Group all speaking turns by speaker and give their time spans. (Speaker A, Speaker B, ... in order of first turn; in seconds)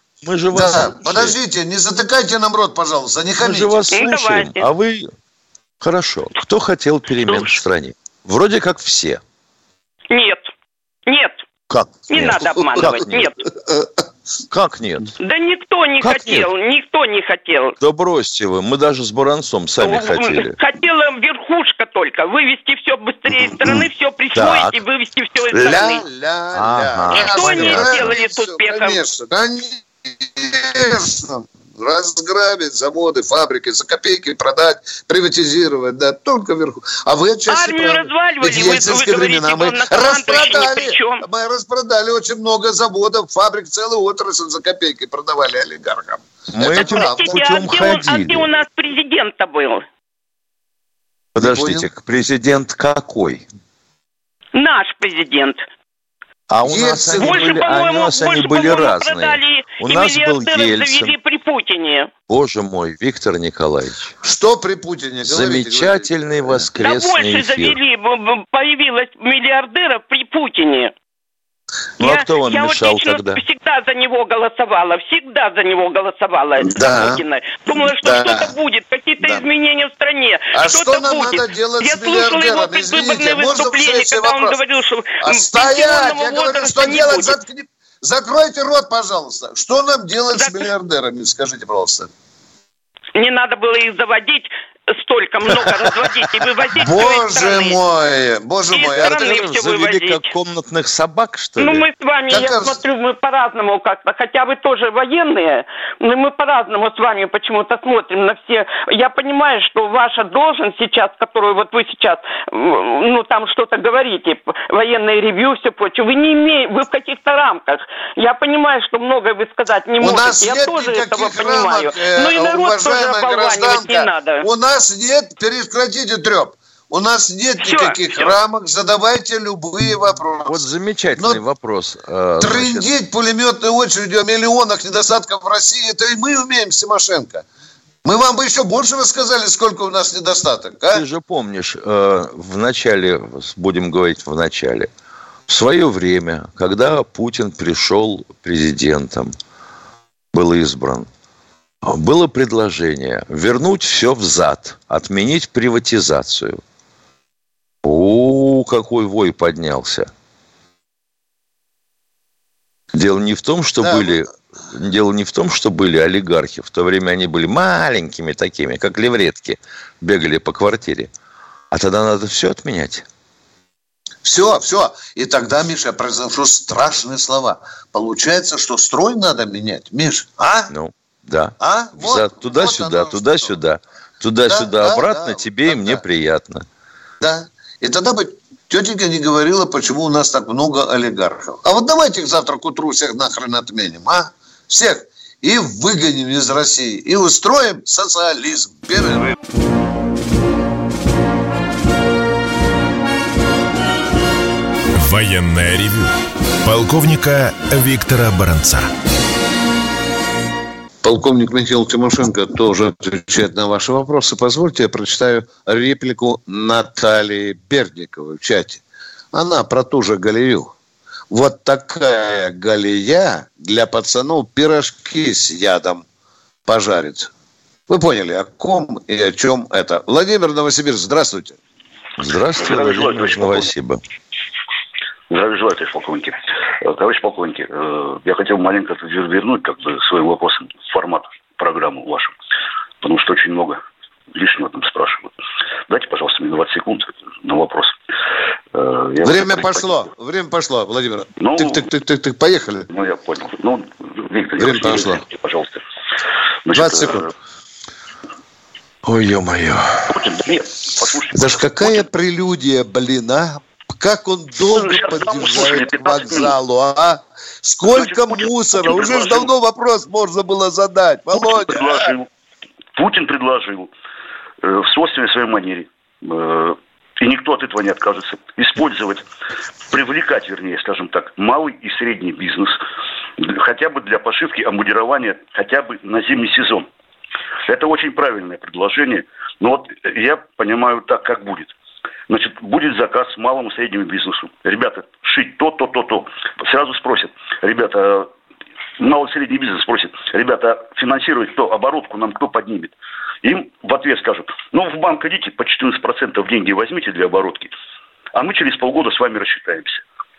Speaker A: 0.2-1.4, 3.4-5.1, 5.8-9.2, 11.7-13.3, 14.5-15.1, 16.0-16.5, 17.8-20.6, 24.4-24.8, 25.5-25.8, 26.5-28.2, 46.5-48.5, 51.4-53.5, 56.5-61.1, 62.3-64.2, 65.2-67.8, 72.0-73.4, 99.0-101.9, 130.5-132.9, 140.9-144.9, 145.5-149.3, 150.3-151.1, 151.8-156.6, 157.8-160.1, 162.9-171.1, 171.7-173.1, 180.7-186.7, 232.2-234.0, 259.1-260.1
Speaker B: 0.5-3.8, 25.6-47.4, 51.4-51.9, 56.6-57.6, 64.2-66.7, 76.7-77.2, 77.8-78.5, 80.5-84.6, 85.2-92.1, 96.8-99.2, 102.3-102.8, 120.0-130.6, 131.2-131.4, 132.4-137.4, 138.1-141.1, 163.8-164.2, 174.2-180.7, 181.6-183.6, 184.5-186.0, 187.2-199.3, 211.0-218.8, 219.3-220.7, 221.3-226.1, 226.7-227.3, 227.9-231.6, 249.2-252.9, 254.6-255.2, 256.7-257.2, 261.3-272.1
Speaker C: 3.9-4.7, 7.3-7.6, 10.1-10.5, 11.1-11.4, 12.1-13.4, 15.2-17.8, 19.8-26.1, 27.1-29.0, 37.5-41.2, 46.6-49.9, 54.5-55.6, 57.1-62.1, 66.8-70.9, 72.0-87.4, 90.3-90.7, 93.2-97.8, 98.7-100.3, 101.6-124.5, 127.6-128.4
Speaker D: 205.0-206.1, 206.6-208.9
Speaker E: 232.6-233.7, 235.3-242.3, 243.0-243.8, 244.3-245.3, 245.9-248.0, 248.7-250.1, 251.4-251.9, 252.9-255.8, 256.7-257.3, 260.1-262.1, 264.6-266.5, 267.8-269.5, 271.3-272.3, 272.9-273.9, 274.6-279.2, 279.9-282.8, 283.4-286.9, 287.7-291.7, 292.3-298.3, 299.0-307.7, 308.4-310.0